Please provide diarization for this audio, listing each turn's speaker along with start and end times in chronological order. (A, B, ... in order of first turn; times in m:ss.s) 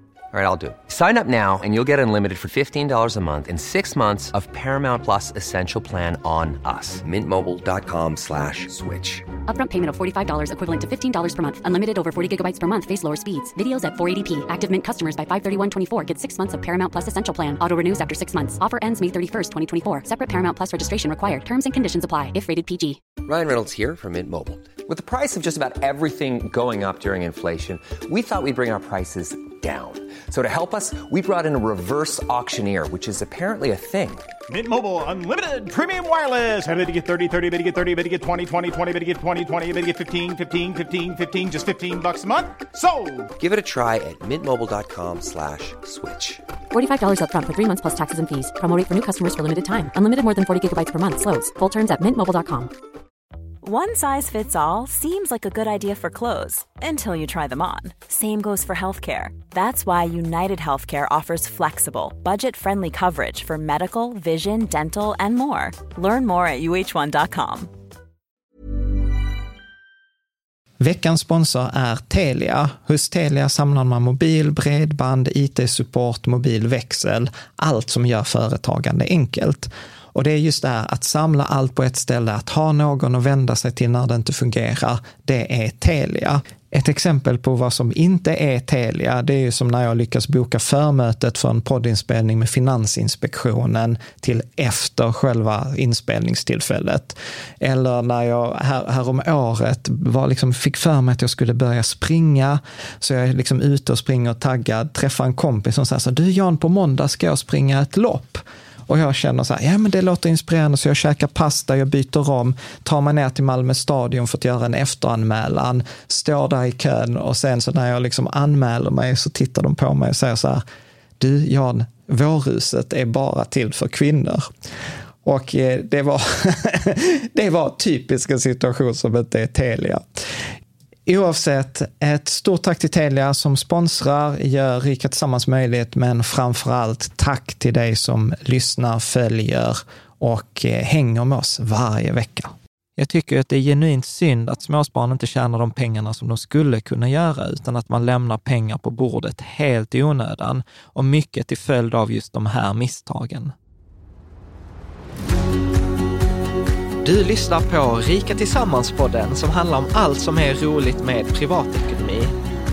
0:00.3-0:09.3 A
0:09.5-0:23.0 B
0:23.2-0:34.3 A
0:34.5-0:43.3 C
0:43.4-0:46.4 A
0:46.7-0:52.7 B
0:53.6-1:07.7 D
1:10.8-2:00.6 E
2:01.2-2:04.5 E
2:05.2-2:10.4 E
2:11.1-2:33.5 E
2:37.0-2:42.3 E